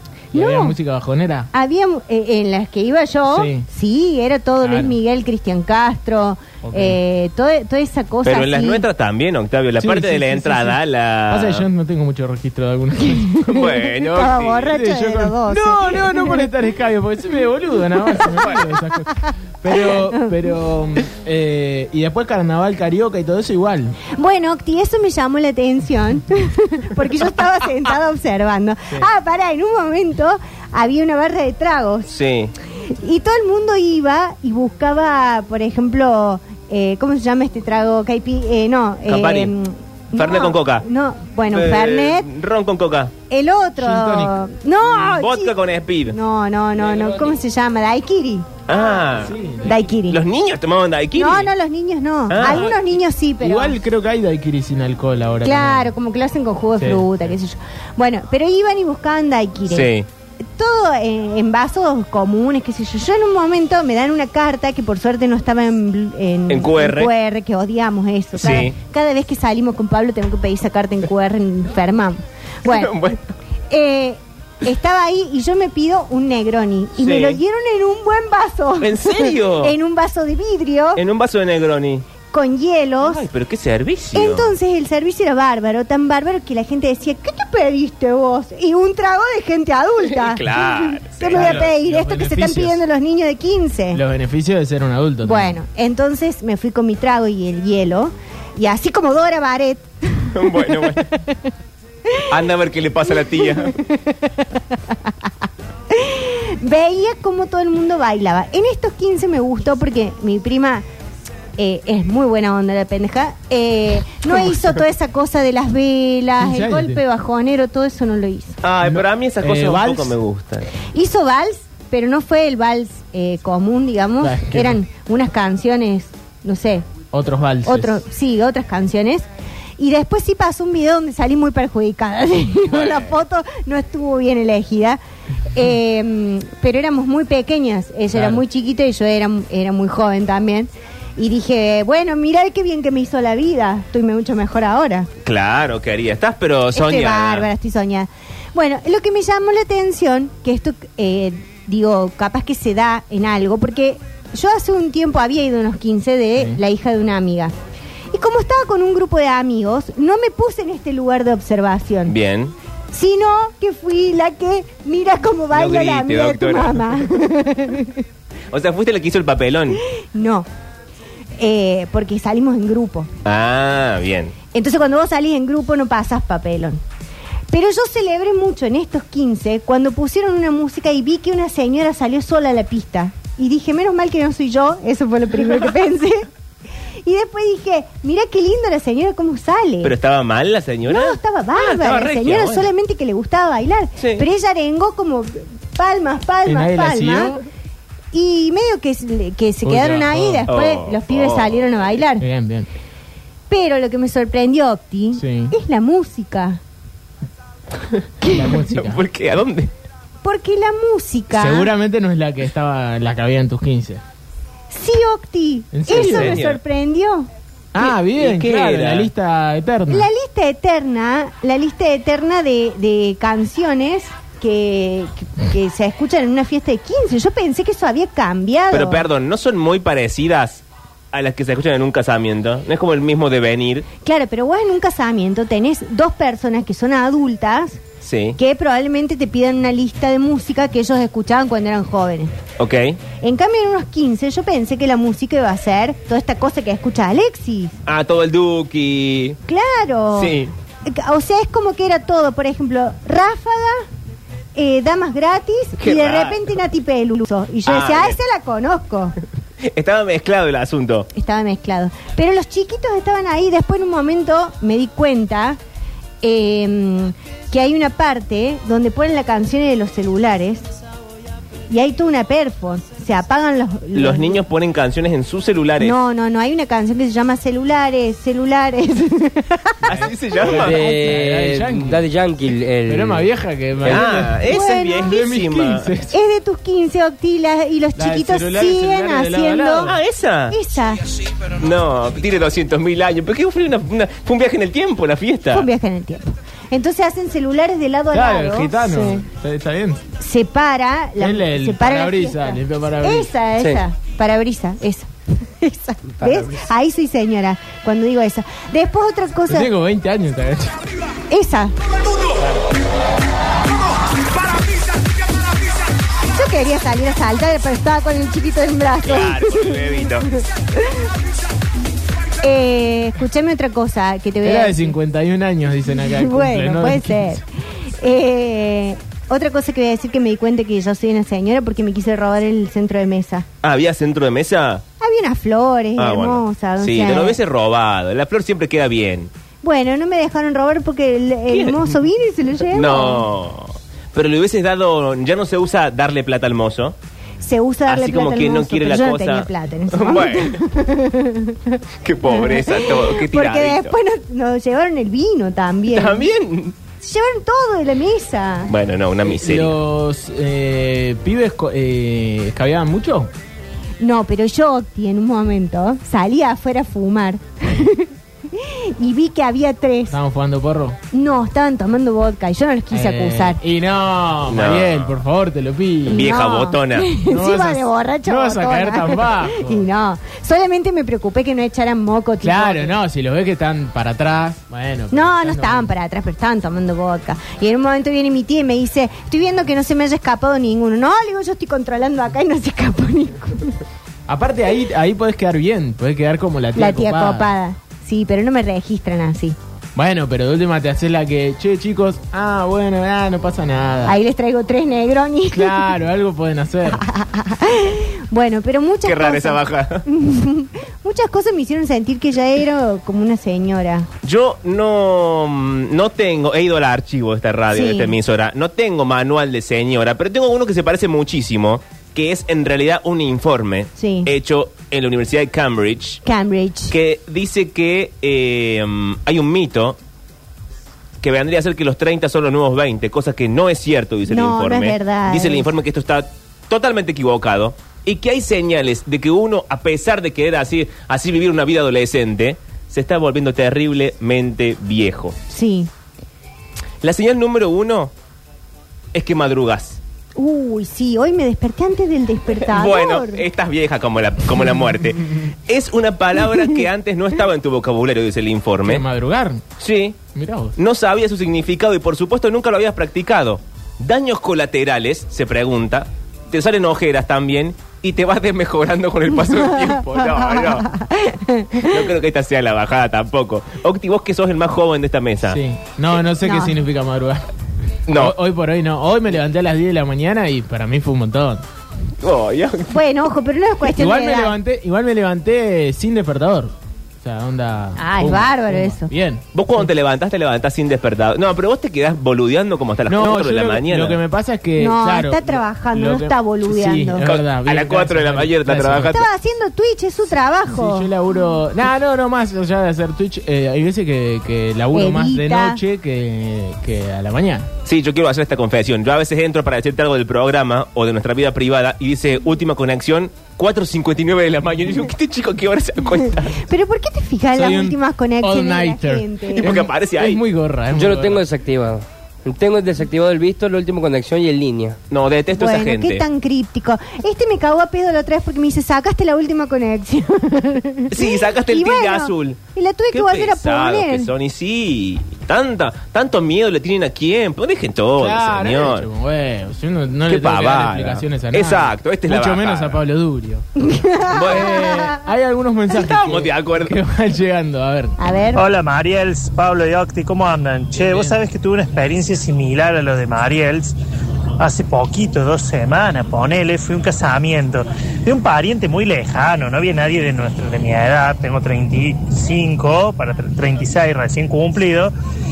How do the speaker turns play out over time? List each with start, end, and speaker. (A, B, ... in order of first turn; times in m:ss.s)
0:00.3-0:00.8 A
0:00.3-0:01.5 B
0:01.5-0:08.8 A
0:03.3-0:03.7 B
0:04.6-0:04.9 B
0:06.6-0:07.0 B
0:08.2-0:11.7 C
0:09.8-0:10.8 B
0:11.3-0:13.4 B
0:13.3-0:16.5 A
0:13.5-0:14.7 C
0:14.7-0:24.0 B
0:19.7-0:20.3 A
0:24.2-0:32.1 A
0:32.1-0:32.5 C
0:32.9-0:42.3 A
0:39.1-0:39.6 C
0:40.1-0:40.9 C
0:41.5-0:43.1 C
0:43.3-0:45.6 A
0:43.8-0:44.4 B
0:44.8-0:46.2 C
0:46.1-0:49.1 A
0:48.7-0:49.4 C
0:49.2-0:49.9 B
0:49.6-0:50.2 A
0:50.0-0:51.5 C
0:51.2-0:53.8 A
0:52.3-0:52.8 C
0:52.4-0:52.7 B
0:53.4-0:55.9 B
0:55.4-0:59.9 A
0:56.8-0:57.1 B
0:59.7-1:00.1 C
1:00.6-1:12.9 A
1:06.5-1:07.1 C
1:08.4-1:08.8 C
1:12.6-1:13.3 C
1:13.7-1:21.0 A
1:17.0-1:17.4 C
1:18.8-1:19.8 C
1:21.0-1:22.1 C
1:22.3-1:23.3 A
1:23.0-1:24.6 C
1:24.1-1:34.0 A
1:30.0-1:31.7 C
1:31.3-1:32.8 B
1:33.9-1:35.5 B
1:35.2-1:41.3 A
1:40.3-1:41.1 C
1:42.3-1:43.8 C
1:43.3-1:45.0 A
1:45.9-1:50.8 A
1:51.6-1:58.6 A
1:56.4-1:57.0 B
1:58.6-2:00.7 C
1:58.8-2:00.2 B
2:00.9-2:06.8 A
2:04.2-2:04.8 B
2:07.1-2:08.0 B
2:07.7-2:09.3 A
2:09.8-2:15.0 A
2:12.7-2:13.1 C
2:15.5-2:25.1 A
2:18.2-2:18.4 B
2:25.2-2:27.5 C
2:26.7-2:37.5 A
2:38.1-2:42.2 A
2:42.1-2:42.6 C
2:42.9-2:48.0 A
2:45.5-2:47.1 C
2:48.5-2:49.8 C
2:50.1-2:50.5 A
2:51.4-2:53.1 A
2:53.2-2:54.4 C
2:54.5-2:56.8 A
2:57.5-3:06.3 A
3:07.0-3:09.9 A
3:09.8-3:12.7 C
3:10.9-3:17.4 A
3:14.0-3:14.3 C
3:16.5-3:17.4 B
3:18.1-3:22.2 A
3:19.6-3:20.5 B
3:20.5-3:21.9 C
3:22.2-3:22.7 B
3:23.5-3:26.6 A
3:25.2-3:25.5 B
3:28.2-3:28.6 A
3:28.2-3:29.0 B
3:28.7-3:29.7 C
3:30.2-3:31.7 A
3:31.3-3:34.0 B
3:34.7-3:37.3 A
3:35.7-3:36.4 B
3:35.9-3:36.6 C
3:37.7-3:40.1 B
3:37.8-3:39.1 C
3:39.9-3:49.1 A
3:48.7-3:53.9 C
3:54.0-3:57.8 A
3:58.0-3:58.4 C
3:58.4-4:02.4 A
4:02.6-4:03.0 C
4:03.2-4:07.8 A
4:07.9-4:09.4 C
4:09.5-4:13.8 A
4:10.1-4:10.5 C
4:14.6-4:19.2 A
4:15.8-4:16.4 C
4:17.7-4:18.2 C
4:19.6-4:21.1 C
4:21.2-4:25.6 A
4:26.2-4:30.7 A
4:31.7-4:34.4 A
4:33.9-4:36.0 C
4:35.8-4:39.9 A
4:39.8-4:40.8 C
4:39.9-4:42.0 B
4:40.5-4:43.3 D
4:42.9-4:46.2 B
4:43.8-4:45.9 C
4:44.5-4:45.2 A
4:46.1-4:50.0 A
4:48.0-4:50.0 B
4:49.8-4:50.6 C
4:50.5-4:51.0 A
4:51.5-4:55.7 C
4:55.5-4:59.2 A
4:58.1-5:00.0 B
5:00.2-5:09.7 A
5:01.2-5:03.3 B
5:09.5-5:10.8 B
5:11.3-5:11.8 A
5:16.3-5:21.0 A
5:19.0-5:20.3 C
5:22.4-5:25.0 A
5:24.4-5:27.4 B
5:25.9-5:27.4 A
5:28.0-5:33.5 A
5:33.6-5:34.8 C
5:35.0-5:37.4 A
5:36.0-5:39.3 C
5:39.6-5:43.3 A
5:41.5-5:42.0 C
5:42.7-5:47.0 C
5:47.4-5:56.3 A
5:47.9-5:50.6 C
5:52.0-5:54.0 C
5:55.9-5:56.8 C
5:57.0-5:58.7 A
5:58.7-5:59.8 C
5:59.3-6:03.3 B
6:04.0-6:10.2 A
6:10.1-6:11.0 B
6:11.1-6:13.6 A
6:12.9-6:16.3 B
6:14.5-6:15.2 C
6:16.1-6:17.1 C
6:16.1-6:22.9 A
6:17.3-6:19.8 B
6:22.4-6:25.9 B
6:25.1-6:33.8 A
6:34.3-6:37.5 B
6:36.8-6:39.6 A
6:40.0-6:44.2 B
6:44.0-6:46.0 A
6:45.5-6:47.0 B
6:46.9-6:54.1 A
6:49.0-6:50.0 C
6:54.2-7:06.2 C
6:57.7-6:58.2 A
7:04.0-7:04.3 A
7:06.2-7:06.9 A
7:06.9-7:10.0 C
7:11.2-7:25.4 C
7:14.3-7:15.7 A
7:25.5-7:25.9 A
7:27.0-7:28.1 C
7:29.1-7:30.0 C
7:30.4-7:33.4 A
7:32.6-7:39.0 C
7:38.8-7:39.6 B
7:39.8-7:40.2 C
7:40.3-7:40.8 B
7:40.8-7:50.9 C
7:50.2-7:52.1 A
7:51.8-7:55.6 C
7:55.5-7:57.5 B
7:56.4-7:56.8 A
7:58.1-7:58.4 C
7:58.1-8:01.6 B
8:02.2-8:03.0 C
8:02.9-8:04.6 A
8:04.0-8:09.4 B
8:08.0-8:09.1 A
8:09.5-8:14.2 C
8:13.1-8:19.2 B
8:14.8-8:17.2 A
8:17.2-8:19.3 C
8:19.1-8:21.4 A
8:20.7-8:27.7 B
8:24.9-8:25.8 A
8:27.8-8:36.6 C
8:36.6-8:39.7 A
8:37.6-8:41.4 B
8:39.6-8:40.4 C
8:40.9-8:45.0 D
8:45.1-8:46.2 C
8:45.6-8:54.3 A
8:51.1-8:52.6 C
8:53.1-8:59.1 C
8:58.2-9:03.7 B
9:00.3-9:03.0 C
9:03.8-9:05.2 A
9:04.3-9:04.8 C
9:04.4-9:08.2 B
9:05.9-9:07.0 C
9:08.2-9:08.6 A
9:08.5-9:14.0 E
9:11.0-9:11.3 B
9:14.6-9:25.1 E